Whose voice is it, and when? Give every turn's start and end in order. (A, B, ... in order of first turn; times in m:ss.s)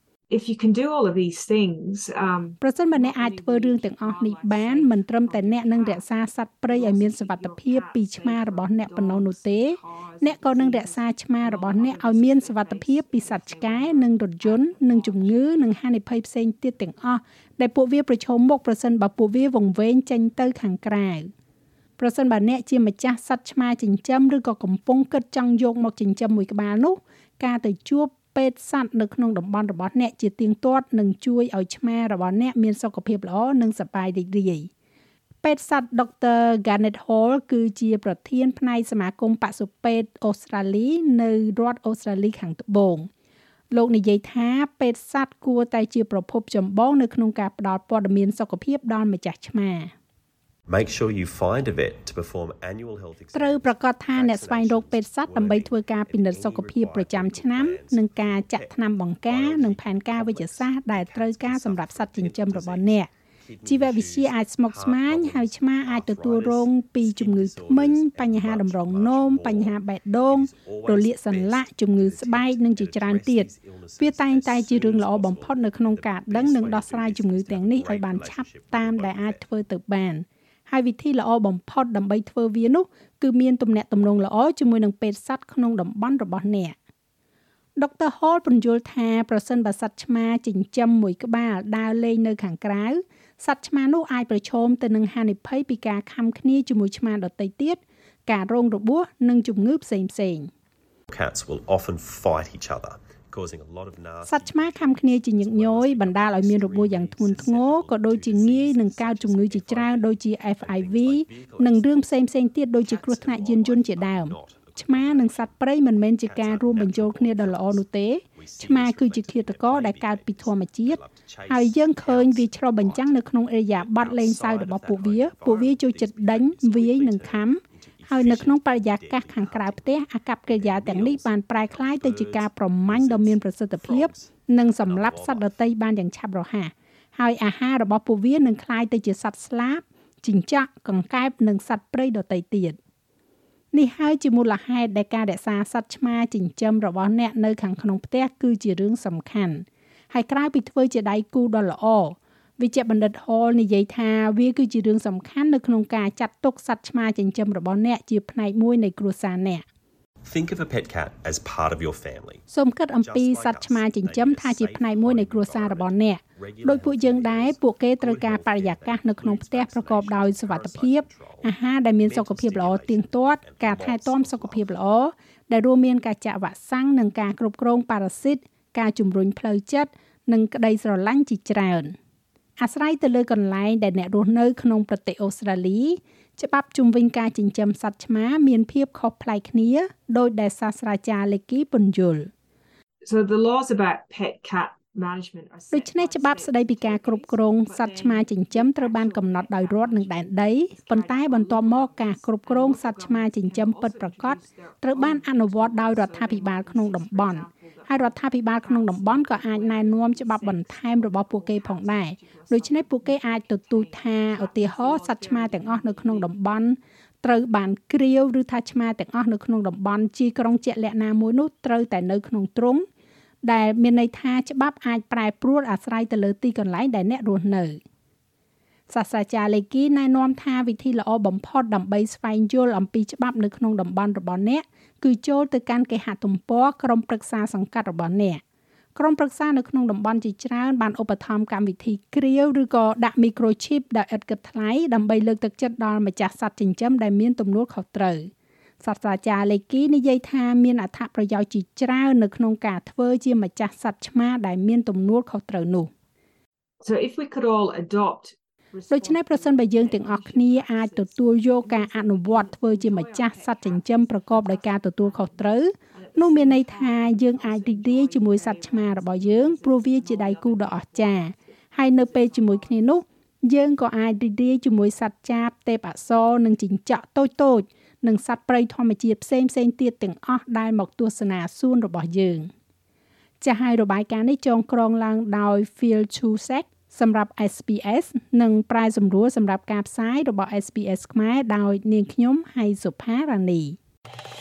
0:00.3-0:15.6 A
0:02.6-0:21.3 B
0:22.0-0:34.7 B
0:35.4-0:43.1 B
0:43.7-0:49.9 B
0:50.7-1:19.4 C
0:53.3-1:03.1 B
1:03.6-1:26.8 B
1:27.8-1:40.5 B
1:41.1-1:52.2 C
1:44.2-2:22.8 B
1:52.8-2:15.5 C
2:23.7-2:39.6 B
2:40.2-2:42.4 C
2:42.5-3:01.9 B
2:43.0-2:54.7 C
3:02.6-3:12.3 B
3:13.0-3:36.3 A
3:15.7-3:42.8 B
3:43.4-3:47.8 B
3:48.9-3:58.4 B
3:59.0-4:15.9 B
4:16.8-4:32.9 A
4:18.9-4:42.5 B
4:43.4-4:53.8 B